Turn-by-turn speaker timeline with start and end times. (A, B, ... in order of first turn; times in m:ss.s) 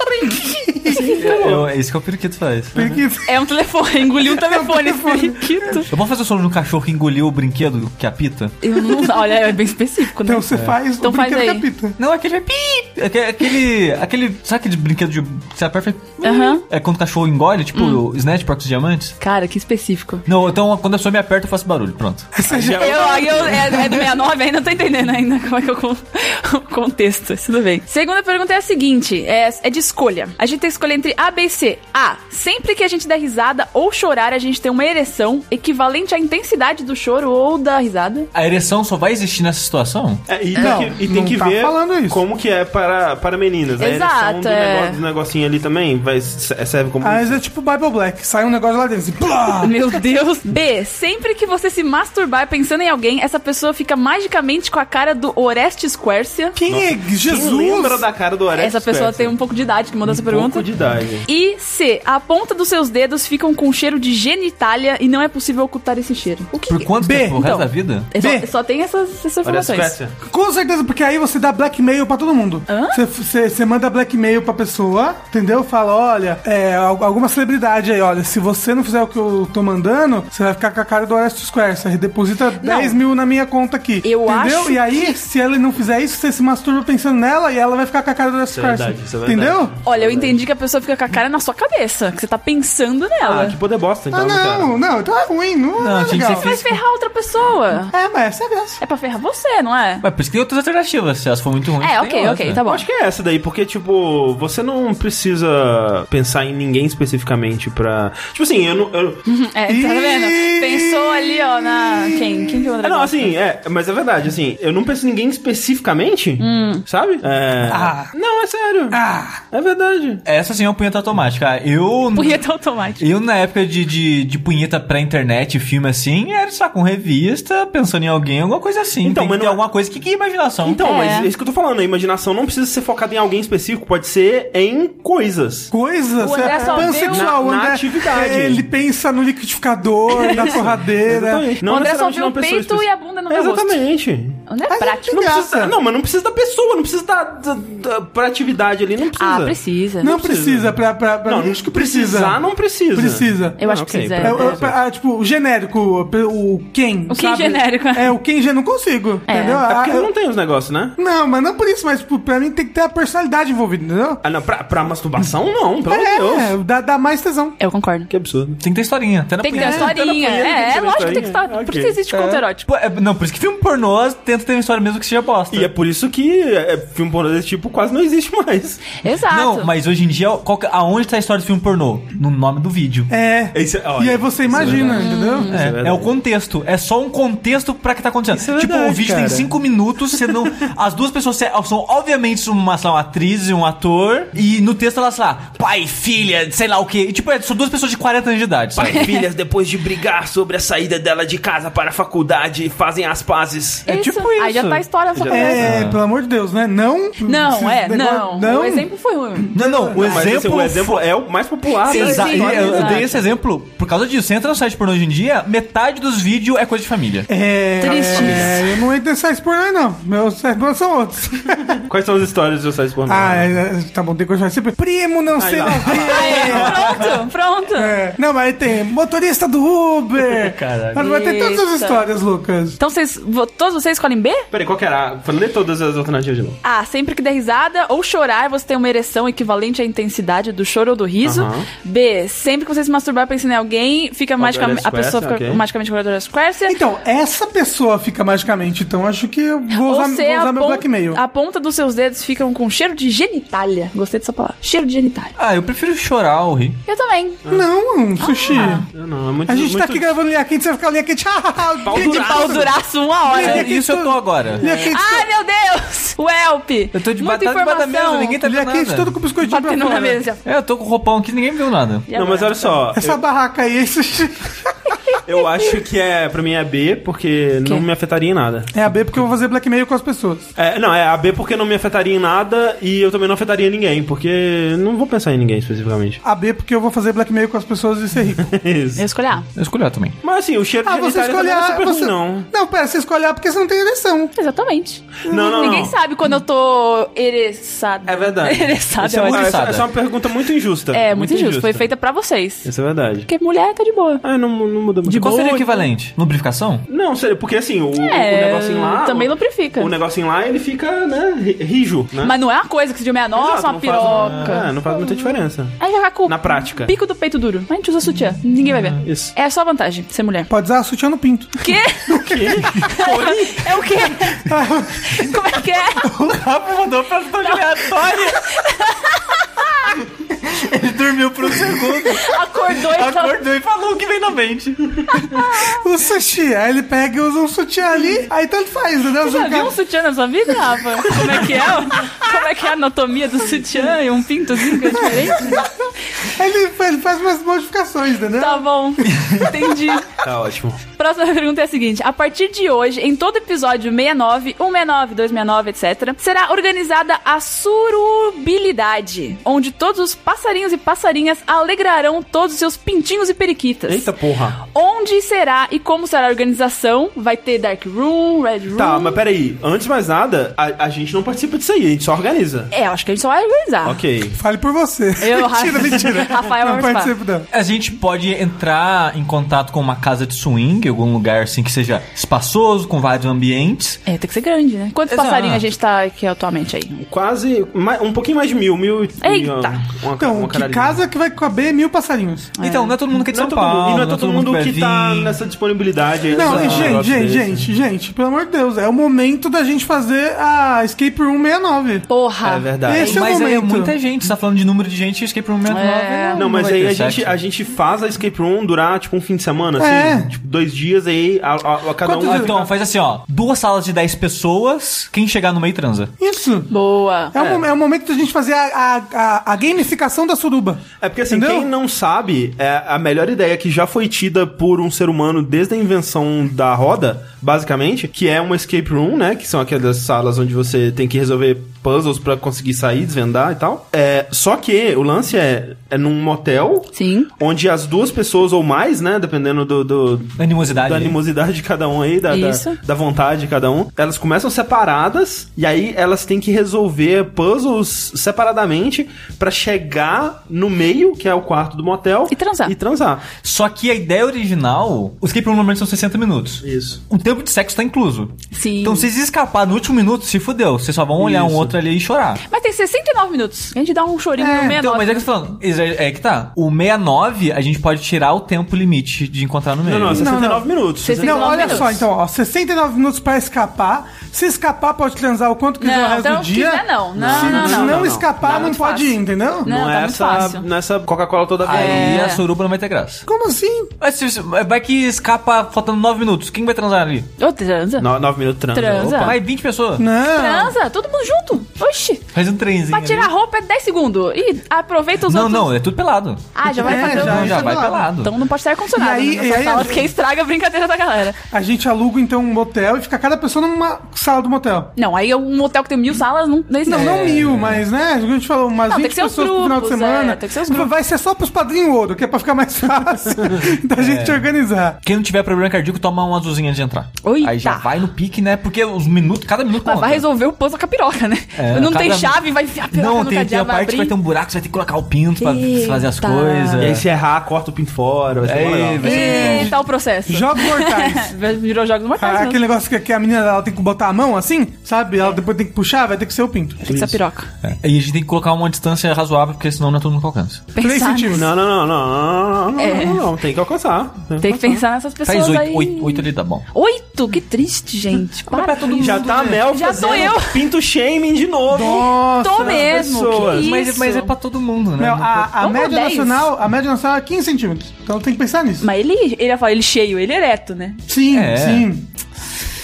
0:00.2-0:01.0 A
0:00.8-0:01.4 B
0:00.8-0:01.7 C
0:01.2-0:02.9 D
0:02.7-0:03.0 C
0:02.7-0:03.4 A
0:03.2-0:05.9 B
0:04.2-0:05.9 A
0:05.9-0:08.6 D
0:08.6-0:10.5 B
0:08.7-0:09.5 A
0:10.2-0:12.0 A
0:11.0-0:11.6 B
0:12.0-0:19.1 D
0:16.2-0:16.6 B
0:17.7-0:18.0 B
0:19.2-0:20.2 B
0:20.2-0:22.3 D
0:22.3-0:24.0 A
0:22.5-0:24.0 C
0:22.8-0:38.3 B
0:38.3-0:40.2 D
0:40.3-0:47.4 C
0:40.6-0:42.2 A
0:40.6-0:40.8 B
0:43.8-0:45.0 B
0:47.0-0:49.8 A
0:49.6-0:56.6 B
0:56.6-0:58.0 A
0:56.7-0:59.4 C
0:58.6-1:00.6 B
1:00.0-1:01.3 C
1:01.2-1:10.0 B
1:06.7-1:08.1 D
1:07.0-1:07.5 A
1:08.1-1:08.5 A
1:09.4-1:10.2 C
1:10.2-1:29.7 A
1:12.7-1:13.0 B
1:22.6-1:23.0 B
1:24.0-1:25.1 B
1:28.5-1:30.4 C
1:29.8-1:33.6 B
1:33.2-1:34.7 C
1:34.1-1:36.5 A
1:35.8-1:36.8 D
1:36.1-1:37.9 B
1:37.9-1:38.8 A
1:38.8-1:40.0 B
1:40.0-1:42.6 D
1:41.8-1:42.8 B
1:42.6-1:49.2 C
1:49.2-1:53.3 B
1:49.7-1:52.7 A
1:52.8-1:59.0 C
1:56.4-1:56.8 B
1:57.6-1:58.1 A
1:58.9-1:59.4 A
1:59.5-2:00.2 C
2:00.2-2:02.4 D
2:02.1-2:03.0 B
2:03.0-2:10.8 D
2:09.0-2:09.6 C
2:10.6-2:15.7 C
2:10.8-2:11.3 B
2:15.7-2:21.5 A
2:16.2-2:17.4 B
2:16.4-2:18.6 C
2:20.1-2:24.4 C
2:21.6-2:23.8 B
2:24.5-2:25.4 B
2:24.7-2:25.8 A
2:25.1-2:30.7 C
2:29.2-2:30.1 B
2:30.0-2:32.4 A
2:31.2-2:34.7 C
2:32.9-2:33.6 A
2:33.6-2:34.6 B
2:34.2-2:40.1 A
2:37.1-2:38.1 B
2:39.3-2:39.6 B
2:39.6-2:41.0 C
2:41.0-2:44.2 A
2:44.2-2:46.5 C
2:45.9-2:47.6 A
2:47.6-2:48.1 B
2:48.1-2:48.6 C
2:48.6-2:49.9 D
2:49.4-2:52.6 B
2:49.6-2:52.0 C
2:52.1-2:55.7 D
2:55.5-2:58.8 C
2:59.0-2:59.7 B
2:59.3-3:03.1 D
3:03.1-3:05.5 A
3:03.5-3:06.1 C
3:04.9-3:05.6 B
3:05.5-3:19.1 D
3:08.3-3:09.5 C
3:18.8-3:23.8 C
3:18.8-3:19.2 B
3:23.8-3:24.8 D
3:23.8-3:25.7 B
3:25.1-3:25.7 C
3:25.3-3:28.9 A
3:25.6-3:26.0 D
3:27.2-3:30.2 B
3:29.5-3:31.0 D
3:29.5-3:30.0 A
3:29.9-3:33.2 C
3:31.8-3:37.3 D
3:31.8-3:33.2 B
3:37.3-3:41.8 A
3:37.8-3:38.6 B
3:37.8-3:38.6 C
3:41.8-3:43.5 C
3:43.0-3:47.0 A
3:45.4-3:47.1 C
3:46.0-3:48.0 B
3:46.6-3:47.1 D
3:47.7-3:52.8 A
3:50.4-3:51.0 C
3:51.0-3:52.0 B
3:52.8-3:54.4 B
3:54.5-3:56.6 C
3:56.6-4:06.8 B
4:01.2-4:01.7 C
4:04.4-4:05.6 C
4:06.7-4:11.2 A
4:09.7-4:15.3 B
4:15.4-4:16.8 D
4:16.9-4:17.4 B
4:17.5-4:18.8 A
4:18.2-4:18.8 B
4:18.5-4:20.1 C
4:19.5-4:22.7 A
4:21.8-4:22.8 C
4:21.9-4:23.7 B
4:23.2-4:25.3 A
4:23.4-4:24.6 D
4:24.6-4:28.4 B
4:26.9-4:29.1 D
4:28.4-4:30.2 A
4:29.5-4:30.4 B
4:30.4-4:32.1 D
4:32.1-4:32.8 B
4:32.1-4:33.2 C
4:32.9-4:34.9 A
4:34.9-4:35.7 B
4:35.2-4:39.2 C
4:38.7-4:40.5 A
4:40.6-4:46.2 C
4:46.2-4:48.5 A
4:48.4-4:49.0 C
4:49.0-4:49.5 B
4:49.5-4:50.2 D
4:50.2-4:52.5 C
4:50.8-4:54.3 A
4:54.3-4:59.5 B
4:55.2-4:55.9 C
4:55.3-4:55.8 A
4:58.0-5:01.9 C
4:59.0-4:59.9 D
5:00.9-5:02.7 B
5:02.6-5:03.3 C
5:03.3-5:04.2 B
5:04.2-5:05.4 C
5:05.0-5:05.9 B
5:05.1-5:06.8 D
5:06.9-5:12.4 C
5:07.9-5:09.9 B
5:12.2-5:15.2 B
5:13.3-5:16.9 C
5:14.1-5:14.6 D
5:15.8-5:20.5 B
5:19.0-5:19.3 C
5:20.5-5:21.8 A
5:21.6-5:26.1 B
5:22.1-5:23.6 C
5:24.4-5:25.3 A
5:26.0-5:28.5 D
5:27.4-5:29.9 B
5:30.2-5:35.5 D
5:32.0-5:33.4 B
5:35.1-5:35.8 B
5:35.6-5:39.8 A
5:39.2-5:45.6 B
5:44.9-5:48.7 A
5:48.4-5:50.1 B
5:50.2-5:50.8 C
5:51.0-6:04.1 B
6:03.9-6:04.6 C
6:04.6-6:09.2 B
6:08.7-6:12.7 C
6:12.7-6:14.0 B
6:13.8-6:14.4 C
6:14.3-6:17.5 A
6:15.2-6:17.1 B
6:17.5-6:24.0 D
6:24.0-6:27.0 B
6:25.1-6:25.6 D
6:27.1-6:31.0 C
6:29.2-6:29.8 B
6:30.2-6:32.5 A
6:32.6-6:33.0 B
6:32.6-6:35.4 D
6:33.2-6:37.7 C
6:36.3-6:42.1 A
6:36.4-6:37.0 D
6:42.1-6:43.2 B
6:42.4-6:43.2 C
6:42.8-6:43.9 A
6:43.0-6:47.4 D
6:45.7-6:46.5 B
6:46.3-6:52.7 C
6:49.8-6:50.3 A
6:52.0-6:52.6 A
6:52.2-6:56.1 D
6:56.2-6:56.7 A
6:56.7-6:57.3 B
6:57.3-7:01.7 A
6:57.3-6:57.6 C
7:01.0-7:33.3 C
7:16.9-7:17.3 B
7:20.4-7:21.2 D
7:22.3-7:22.8 B
7:32.3-7:32.7 B
7:33.4-7:42.4 D
7:36.6-7:37.0 C
7:38.5-7:39.1 B
7:41.2-7:41.8 C
7:42.5-7:45.2 B
7:44.4-7:44.8 A
7:44.6-7:50.3 D
7:49.8-7:52.0 C
7:50.1-7:59.7 A
7:51.0-7:51.9 B
7:55.8-8:00.6 B
7:57.2-7:58.8 C
7:59.6-8:02.3 C
8:01.6-8:03.2 D
8:01.7-8:02.4 B
8:03.3-8:03.9 A
8:04.0-8:07.3 D
8:07.4-8:08.1 B
8:08.0-8:09.4 C
8:08.7-8:09.4 B
8:09.0-8:10.1 D
8:10.0-8:10.7 A
8:10.3-8:12.3 B
8:12.3-8:13.3 D
8:12.9-8:15.7 B
8:15.3-8:18.3 D
8:16.5-8:21.4 B
8:16.8-8:18.1 A
8:18.9-8:20.1 A
8:21.5-8:24.9 A
8:25.0-8:27.4 B
8:26.8-8:35.0 A
8:26.9-8:27.8 D
8:28.9-8:30.9 B
8:34.0-8:34.4 D
8:35.0-8:40.2 D
8:37.2-8:37.9 B
8:39.8-8:44.1 B
8:41.6-8:47.0 D
8:45.4-8:47.0 B
8:46.8-8:49.2 C
8:48.4-8:49.7 D
8:49.0-8:52.6 B
8:49.0-8:51.3 A
8:52.2-8:56.9 A
8:56.8-8:57.5 B
8:56.9-8:57.2 C
8:57.6-9:00.6 D
9:00.7-9:01.5 B
9:00.8-9:01.5 A
9:01.3-9:04.8 C
9:02.8-9:03.2 B
9:04.4-9:10.6 B
9:05.2-9:06.6 D
9:08.5-9:09.6 A
9:08.6-9:09.5 D
9:09.0-9:13.8 C
9:11.7-9:12.9 A
9:11.8-9:14.3 B
9:13.4-9:15.6 D
9:15.0-9:18.8 A
9:15.6-9:16.5 B
9:18.8-9:21.0 B
9:21.1-9:22.1 A
9:21.3-9:21.9 D